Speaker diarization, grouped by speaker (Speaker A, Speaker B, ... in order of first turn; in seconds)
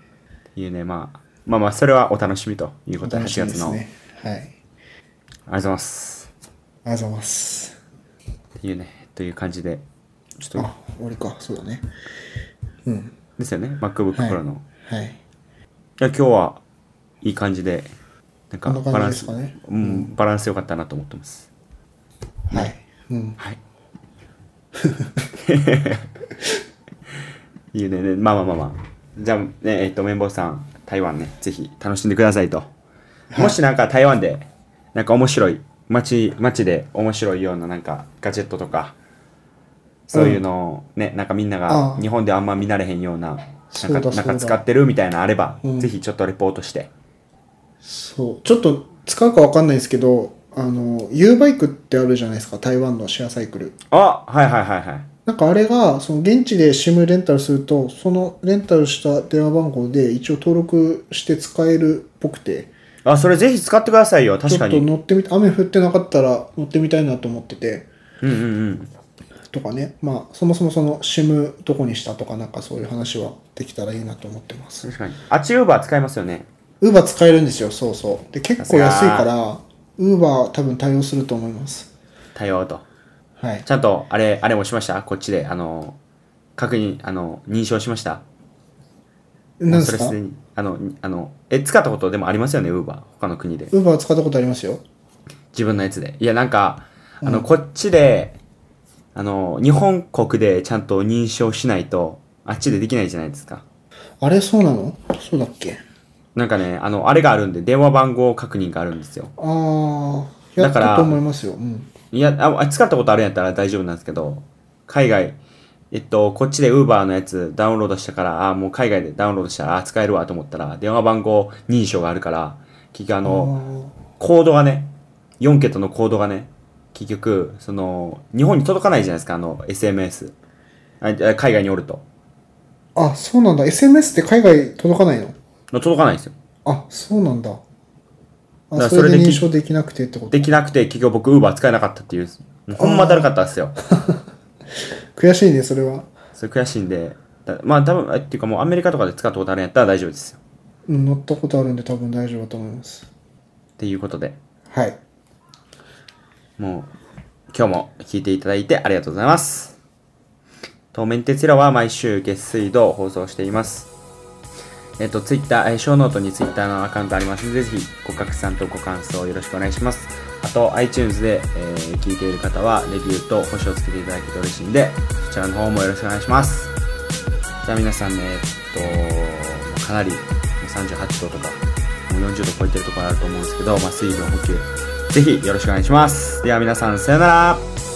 Speaker A: 0.6-3.8, 5.5-6.3, 8.6-9.8, 10.4-10.7, 13.4-14.6, 16.0-16.6, 17.2-17.9, 18.5-21.5, 25.4-26.1, 27.7-32.7, 33.4-39.0, 40.1-46.9, 53.9-55.1, 63.0-64.9, 68.2-68.9, 74.8-76.5, 78.6-79.3, 82.4-82.8, 83.7-86.0, 86.6-88.2, 89.7-93.7, 95.5-98.4, 99.2-103.6, 106.3-109.3, 110.6-111.2, 112.1-115.4, 115.9-123.5, 124.2-130.3, 131.0-132.0, 135.7-136.3, 138.8-139.5, 140.3-143.8, 146.4-150.4, 153.8-154.4, 156.6-156.9, 157.5-159.8, 160.9-163.9, 165.0-176.7, 177.6-187.7
Speaker B: 3.0-4.5, 6.8-7.8, 10.6-11.9, 12.8-13.2, 14.1-15.2, 18.7-20.1, 22.5-23.4, 24.8-25.2, 33.3-33.6, 40.1-40.4, 41.7-42.1, 43.7-44.6, 45.6-45.9, 47.8-53.8, 55.3-62.7, 64.5-67.9, 69.5-74.9, 76.8-81.9, 83.4-83.7, 89.6-90.2, 93.7-94.8, 97.2-97.5, 104.2-105.8, 109.4-111.9, 123.2-124.0, 132.9-135.4, 136.7-137.6, 138.7-140.4, 142.8-143.3, 143.9-144.2, 145.2-146.1, 150.9-153.1, 154.7-155.0